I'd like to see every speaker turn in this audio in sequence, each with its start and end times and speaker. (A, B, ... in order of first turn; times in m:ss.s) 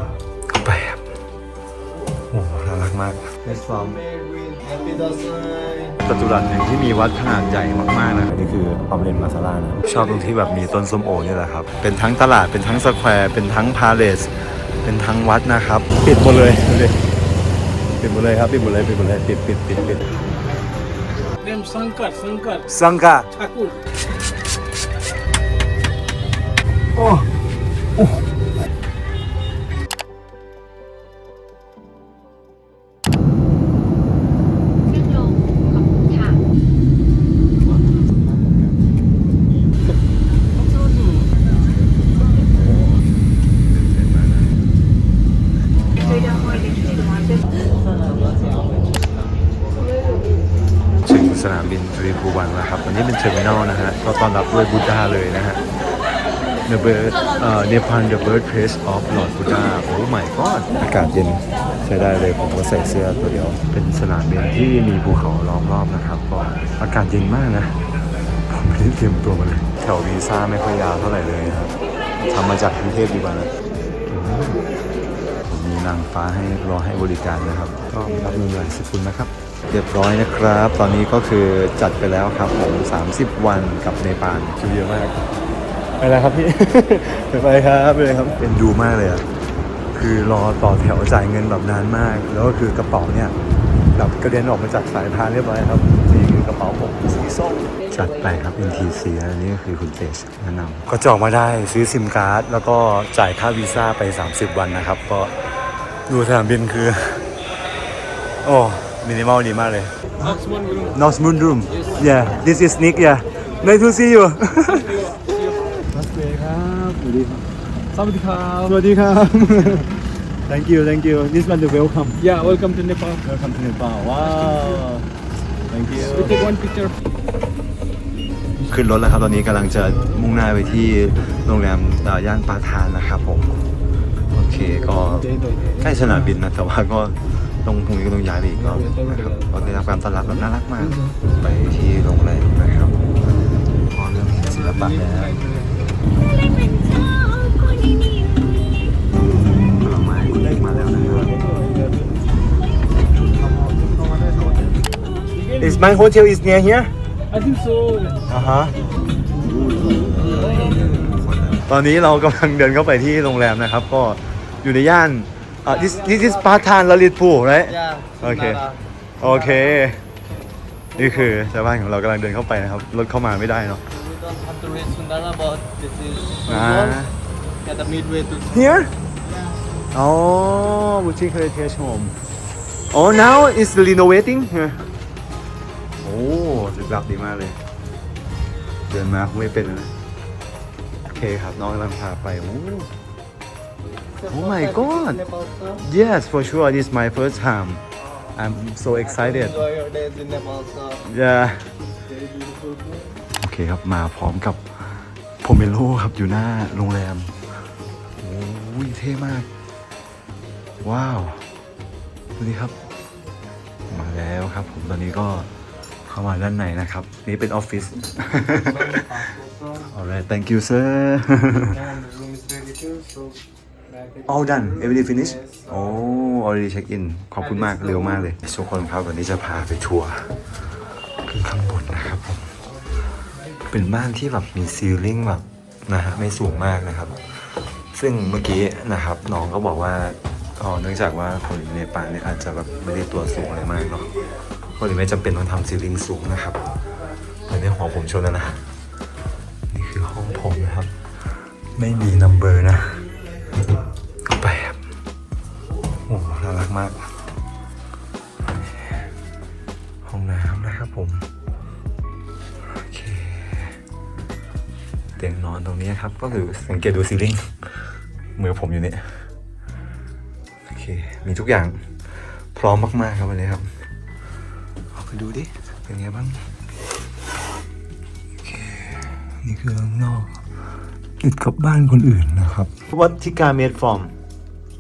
0:00.5-0:01.1 A
0:02.2-0:04.0 A
0:04.0-0:06.0 B
0:06.0-0:17.0 A
0:18.0-0:20.1 A
0:21.4-0:22.7 C
0:22.7-0:23.3 A
0:23.3-0:23.8 C
0:27.0-0:27.3 A
0:28.0-0:28.2 A
0:34.9-0:36.4 D
0:42.3-0:44.7 A
0:46.1-0:47.5 D
0:51.0-0:55.6 A
0:56.7-1:07.8 A
1:08.5-1:13.5 A
1:14.1-1:14.6 A
1:15.5-1:25.2 A
1:26.0-1:29.3 A
1:29.9-1:33.4 A
1:33.9-1:45.4 A
1:46.1-1:47.3 A
1:48.4-1:50.4 A
1:50.4-1:50.8 C
1:50.9-1:55.3 A
1:55.8-1:57.5 A
1:57.9-1:58.7 C
1:58.6-2:02.6 A
2:02.2-2:03.2 C
2:03.2-2:05.1 A
2:05.7-2:06.5 A
2:06.1-2:07.0 C
2:08.6-2:13.6 A
2:14.3-2:23.2 A
2:15.3-2:15.8 C
2:23.7-2:25.4 A
2:25.4-2:25.9 B
2:29.6-2:31.4 A
2:33.2-2:34.8 B
2:35.4-2:35.8 C
2:35.6-2:36.9 A
2:37.3-2:38.2 C
2:38.3-2:38.8 A
2:39.6-2:40.3 B
2:40.3-2:48.6 A
2:47.9-2:48.8 B
2:49.2-2:50.0 A
2:51.0-2:53.8 A
2:54.0-2:56.5 B
2:56.5-2:57.1 A
2:57.6-2:58.5 B
2:58.5-2:58.9 A
2:59.9-3:02.2 A
3:02.9-3:04.9 A
3:06.0-3:07.6 A
3:08.9-3:09.9 A
3:11.1-3:12.9 A
3:14.3-3:19.7 A
3:19.6-3:20.9 B
3:21.0-3:21.7 A
3:23.4-3:27.4 A
3:28.2-3:29.5 A
3:30.8-3:31.5 A
3:32.4-3:32.8 A
3:33.9-3:35.5 A
3:36.0-3:41.9 A
3:42.2-3:43.2 B
3:44.2-3:50.4 A
3:51.2-3:52.6 A
3:53.7-4:04.1 A
4:04.8-4:06.6 A
4:07.5-4:08.7 A
4:09.7-4:13.1 A
4:14.2-4:14.8 A
4:16.1-4:17.2 A
4:20.0-4:21.3 A
4:22.6-4:23.8 A
4:25.2-4:29.3 A
4:30.7-4:33.7 A
4:34.9-4:36.5 A
4:38.4-4:40.4 A
4:41.2-4:44.2 A